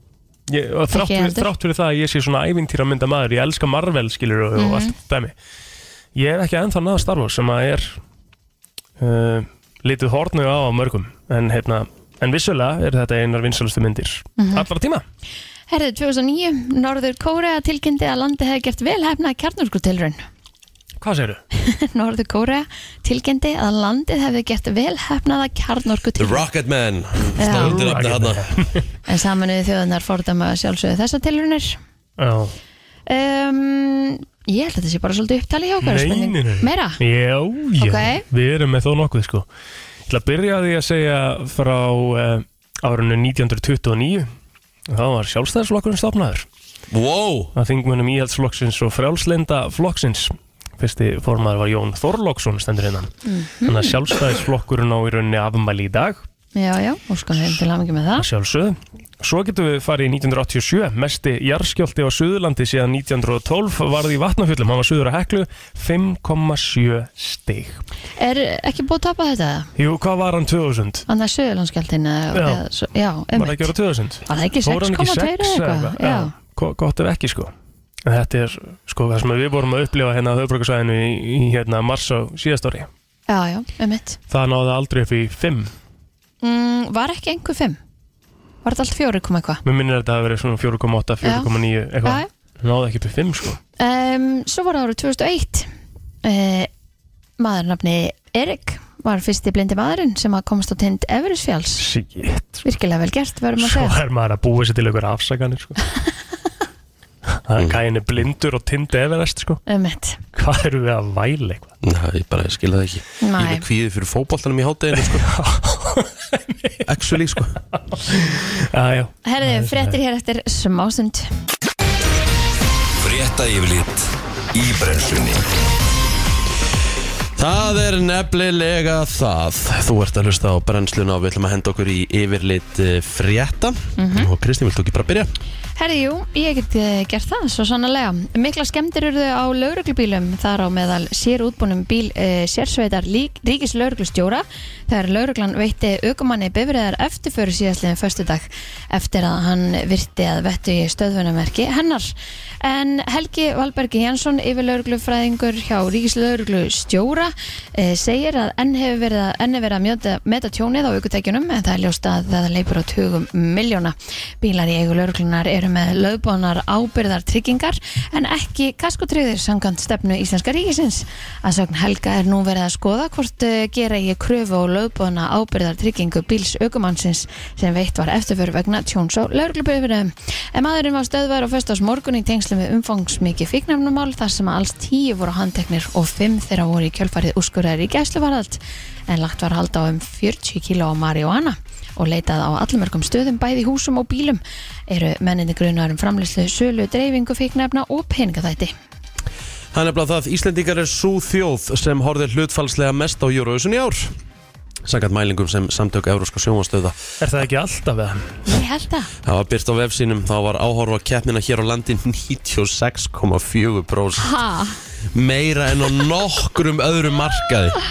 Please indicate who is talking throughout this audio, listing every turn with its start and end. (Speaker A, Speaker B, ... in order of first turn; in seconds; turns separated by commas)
Speaker A: 0.5-5.3, Speaker B: 0.9-1.5, Speaker B: 4.5-4.9, Speaker A: 6.1-8.0, Speaker A: 9.0-15.0, Speaker B: 14.4-14.7, Speaker B: 15.7-20.2, Speaker A: 21.0-21.4, Speaker B: 21.5-26.4, Speaker C: 26.2-28.5, Speaker B: 27.4-27.8, Speaker A: 27.4-28.9, Speaker B: 29.1-31.8, Speaker A: 32.2-32.5, Speaker B: 33.1-37.0, Speaker A: 35.8-39.5, Speaker B: 37.8-38.2, Speaker A: 40.1-44.3, Speaker A: 44.9-46.5, Speaker C: 46.9-47.5, Speaker A: 47.5-56.2, Speaker B: 53.2-53.9, Speaker B: 56.5-58.2, Speaker A: 58.2-67.8, Speaker B: 68.2-69.7, Speaker A: 69.8-71.0, Speaker B: 71.1-73.7, Speaker A: 72.3-72.6, Speaker A: 73.3-77.5, Speaker B: 74.2-76.3, Speaker A: 78.0-82.9, Speaker B: 83.3-84.2, Speaker A: 84.3-85.7, Speaker B: 86.4-87.8, Speaker B: 88.6-89.6, Speaker A: 89.6-93.6, Speaker B: 91.2-91.5, Speaker B: 92.0-92.3, Speaker B: 93.8-95.7, Speaker B: 96.2-96.7, Speaker B: 97.4-101.8, Speaker A: 101.8-102.6, Speaker B: 102.6-104.0, Speaker A: 103.6-105.8, Speaker A: 107.4-109.6, Speaker B: 109.7-110.2, Speaker A: 110.3-111.7, Speaker C: 111.8-115.3, Speaker B: 113.2-113.6, Speaker A: 115.0-116.8, Speaker C: 116.8-117.6, Speaker A: 117.8-120.0, Speaker B: 119.2-121.3, Speaker C: 123.0-124.0, Speaker C: 124.5-125.4, Speaker C: 127.4-135.3, Speaker B: 134.0-134.3, Speaker B: 135.8-198.7, Speaker C: 199.7-204.1, Speaker C: 204.8-207.0, Speaker A: 207.2-208.4, Speaker B: 208.4-209.1, Speaker C: 209.2-214.3, Speaker B: 214.2-214.8, Speaker C: 215.1-217.8